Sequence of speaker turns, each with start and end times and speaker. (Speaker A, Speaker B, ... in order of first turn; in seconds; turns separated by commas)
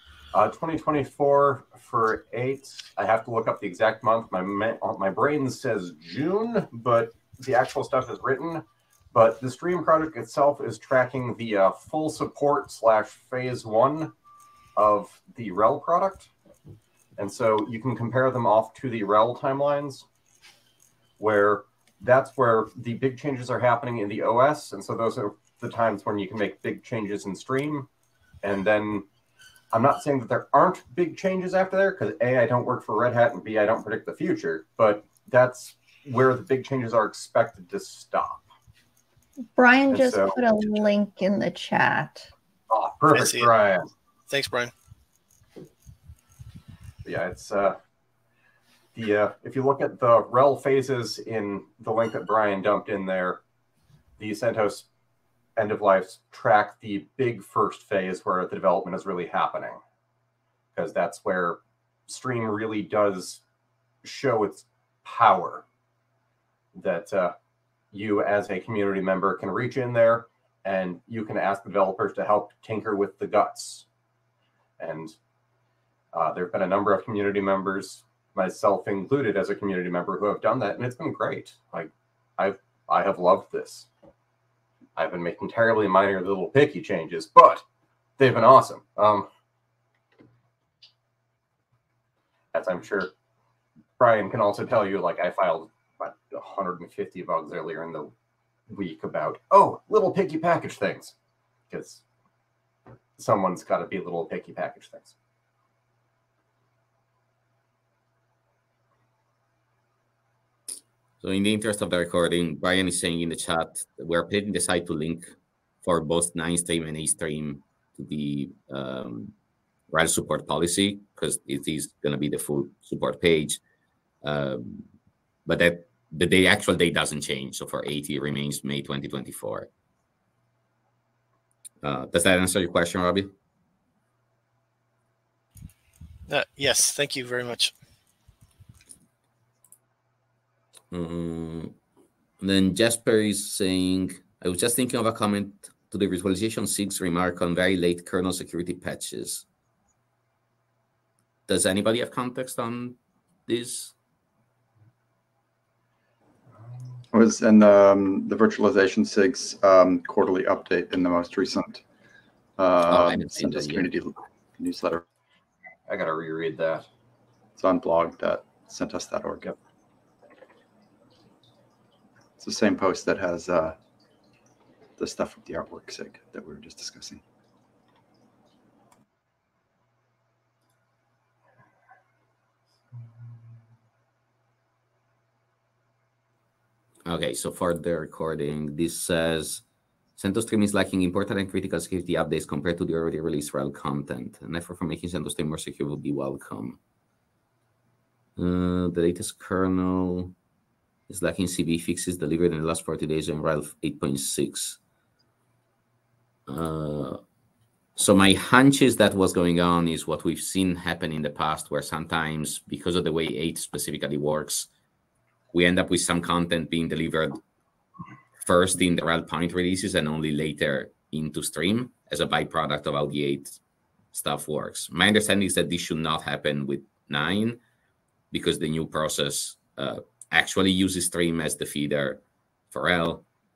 Speaker A: 0.3-14.1, Speaker A: 14.8-16.3, Speaker A: 17.2-20.1, Speaker A: 21.2-27.9, Speaker A: 28.4-29.1, Speaker A: 29.7-38.5, Speaker B: 39.6-42.3, Speaker A: 39.9-40.8, Speaker A: 42.7-43.9, Speaker C: 43.1-43.5, Speaker C: 44.3-44.7, Speaker A: 47.0-47.8, Speaker A: 49.0-53.4, Speaker A: 54.2-54.9, Speaker A: 55.6-59.8, Speaker A: 60.8-63.4, Speaker A: 64.0-65.6, Speaker A: 66.7-67.3, Speaker A: 67.9-73.8, Speaker A: 74.8-75.2, Speaker A: 76.1-83.9, Speaker A: 85.0-87.7, Speaker A: 88.2-89.3, Speaker A: 92.5-93.1, Speaker A: 94.0-98.1, Speaker A: 98.7-101.2, Speaker A: 101.7-102.0, Speaker A: 103.2-105.2, Speaker D: 111.2-119.3, Speaker D: 119.9-123.6, Speaker D: 124.2-124.9, Speaker D: 125.5-129.7, Speaker D: 131.8-133.3, Speaker C: 136.3-137.7, Speaker D: 140.9-141.8, Speaker D: 142.4-149.4, Speaker D: 151.5-153.9, Speaker E: 157.1-161.8, Speaker E: 162.6-165.0, Speaker D: 162.9-163.9, Speaker A: 165.9-166.9, Speaker E: 167.6-169.5, Speaker E: 172.4-173.8, Speaker E: 175.0-177.2, Speaker D: 187.1-189.6, Speaker D: 190.2-196.8, Speaker D: 198.4-200.3, Speaker D: 201.1-204.8, Speaker D: 206.5-207.2, Speaker D: 208.0-214.7, Speaker D: 215.5-217.4, Speaker D: 218.4-223.6, Speaker D: 224.1-227.6, Speaker D: 228.3-233.3